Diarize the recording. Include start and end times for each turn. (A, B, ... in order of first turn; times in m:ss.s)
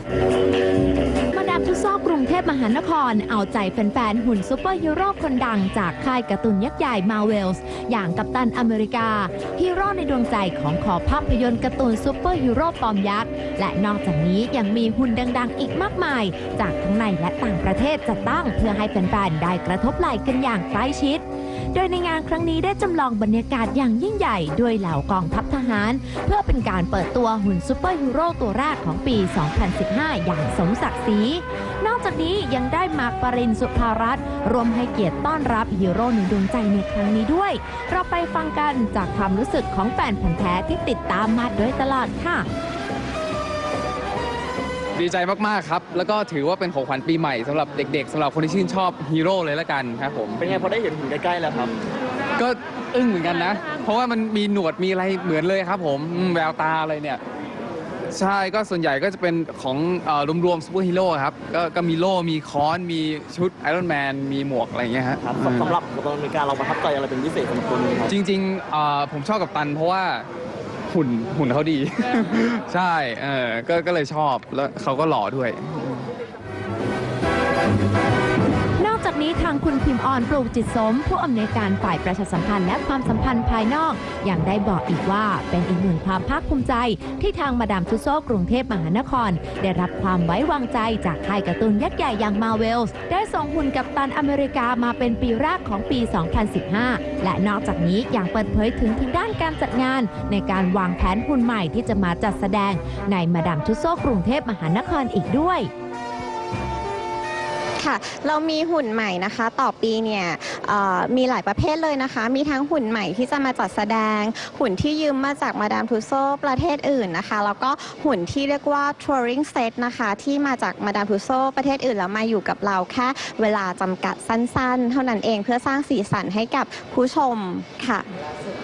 0:01.3-0:42.5 A
0:45.0-0:50.7 B
0:50.4-0:51.7 C
0:52.4-0:57.2 B
0:58.1-1:05.8 B
1:05.2-1:08.1 C
1:08.1-1:10.2 B
1:10.9-1:16.0 B
1:18.8-1:45.7 A
1:47.8-2:08.0 D